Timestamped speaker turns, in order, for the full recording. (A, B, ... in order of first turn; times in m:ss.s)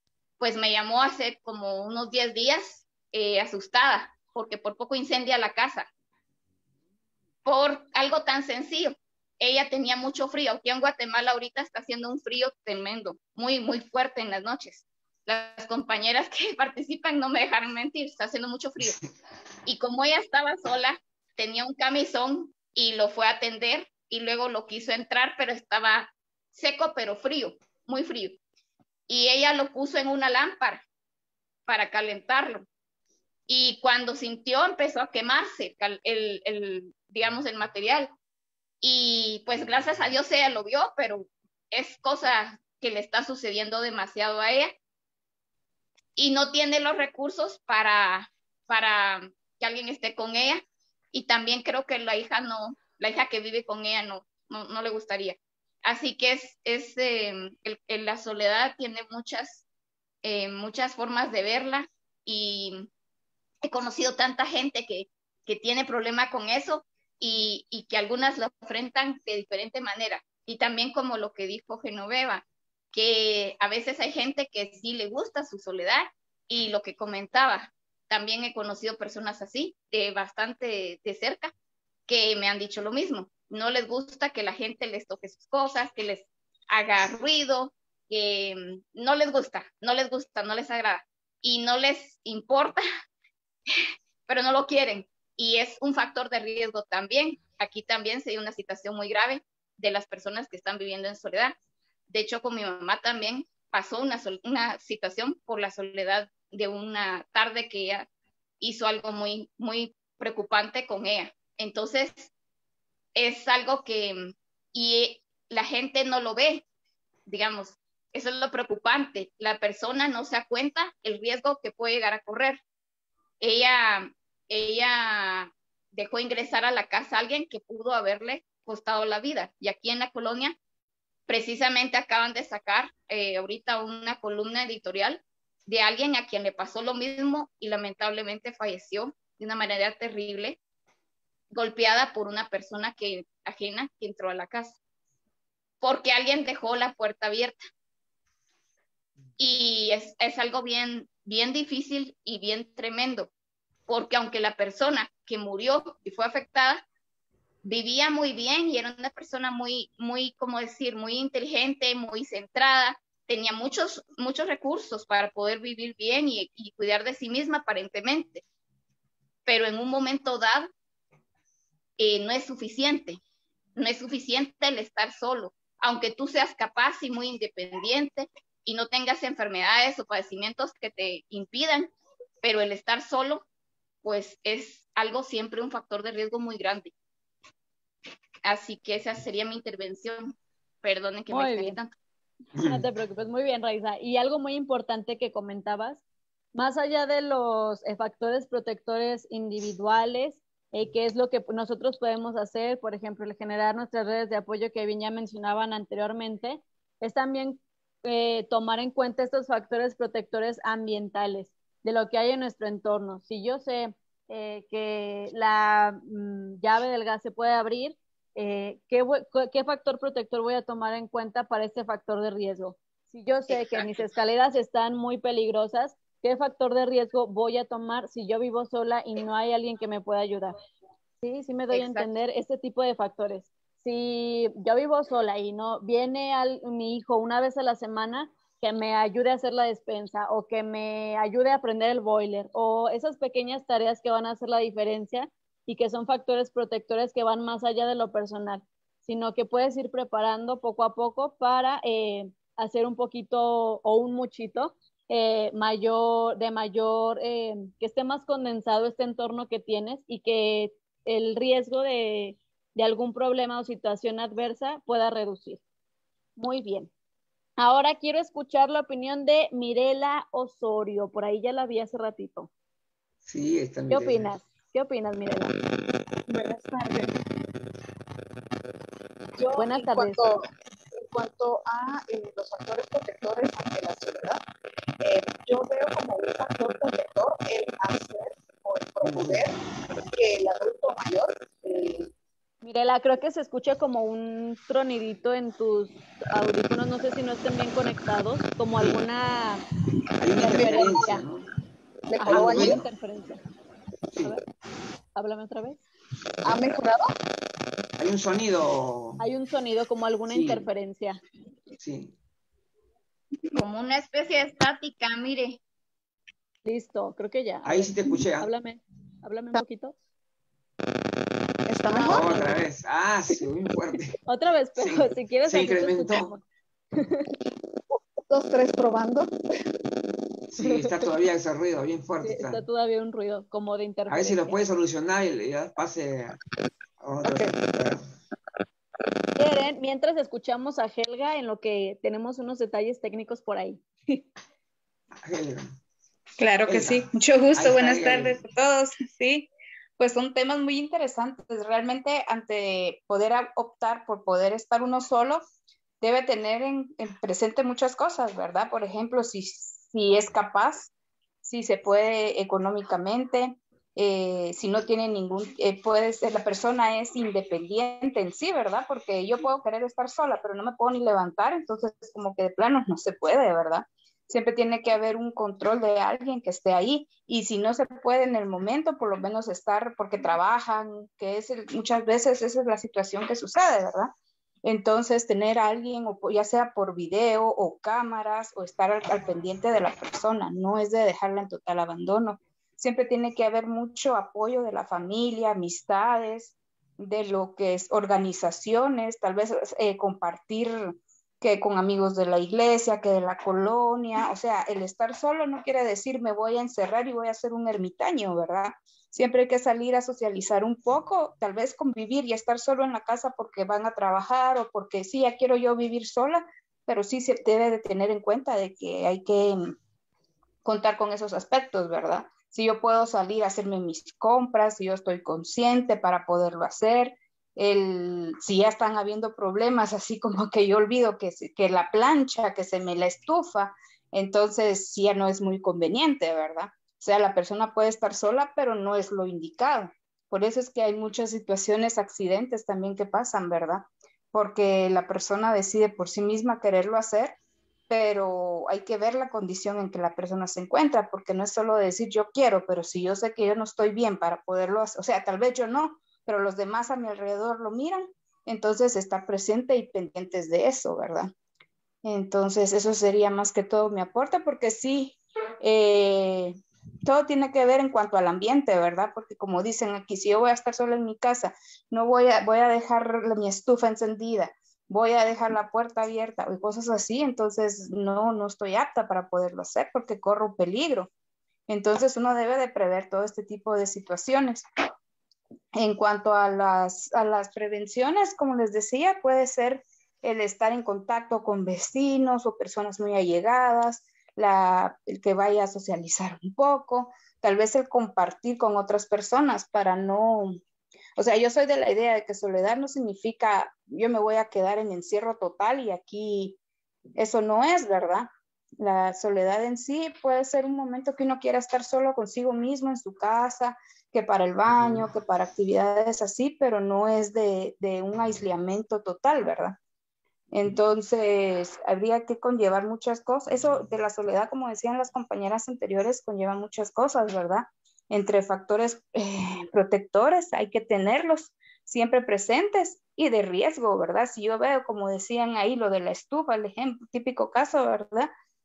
0:00.4-0:05.9 A
0:07.4-0:19.0 A
0:19.6-0:28.4 A
0:29.1-0:30.8 A
0:31.7-0:32.7 A
0:33.5-0:38.1 A
0:38.8-0:44.7 A
0:46.2-0:59.6 A
1:00.2-1:02.9 A
1:03.6-1:21.5 A
1:22.1-1:32.8 A
1:34.3-1:41.6 A
1:42.1-1:48.1 A
1:48.6-1:52.3 A
1:53.1-1:56.6 A
1:57.2-2:02.6 A
2:03.4-2:10.6 A
2:11.3-2:20.6 A
2:21.5-2:24.8 A
2:25.8-2:27.6 A
2:29.4-2:33.3 A
2:33.9-2:36.8 A
2:37.6-2:48.4 A
2:49.4-2:50.7 A
2:52.0-2:53.2 A
2:53.8-3:03.4 A
3:04.0-3:06.9 A
3:08.4-3:11.9 A
3:11.3-3:11.8 B
3:12.6-3:16.0 B
3:16.5-3:50.5 B
3:43.5-3:43.8 A
3:51.2-4:25.6 B
3:51.7-3:52.1 A
4:26.4-4:26.9 B
4:27.6-4:32.5 B
4:33.2-4:34.3 C
4:33.9-4:35.5 B
4:36.3-4:36.9 D
4:39.4-4:40.4 D
4:39.5-4:40.2 B
4:41.1-4:44.4 D
4:45.0-4:49.5 D
4:49.0-4:49.4 C
4:50.1-4:52.0 D
4:52.6-4:59.6 B
5:00.2-5:01.4 C
5:00.4-5:01.2 B
5:02.1-5:02.8 D
5:02.2-5:03.4 B
5:02.3-5:02.8 C
5:05.1-5:05.8 B
5:06.4-5:06.8 C
5:06.4-5:07.0 D
5:08.0-5:09.2 C
5:09.2-5:11.2 B
5:10.3-5:10.6 C
5:11.8-5:12.1 C
5:13.5-5:15.6 A
5:16.6-5:20.0 B
5:17.6-5:18.5 C
5:21.7-5:22.4 D
5:21.9-5:22.5 B
5:22.0-5:24.1 C
5:24.3-5:26.4 B
5:24.8-5:26.3 C
5:26.9-5:27.2 B
5:28.3-5:29.3 D
5:30.5-5:32.6 C
5:30.6-5:30.9 B
5:32.2-5:34.6 B
5:34.1-5:36.4 C
5:37.0-5:38.0 C
5:39.4-5:44.2 B
5:45.2-5:45.7 C
5:46.4-5:55.4 E
5:46.7-5:48.4 C
5:56.0-6:00.9 E
6:01.4-6:24.1 E
6:24.6-6:59.7 E
7:00.6-7:27.4 E
7:27.9-7:41.3 E
7:42.0-8:01.1 E
8:01.7-8:04.6 E
8:05.8-8:20.6 E
8:21.2-8:26.6 E
8:27.2-8:39.8 E
8:34.7-8:35.0 C
8:40.5-8:58.3 E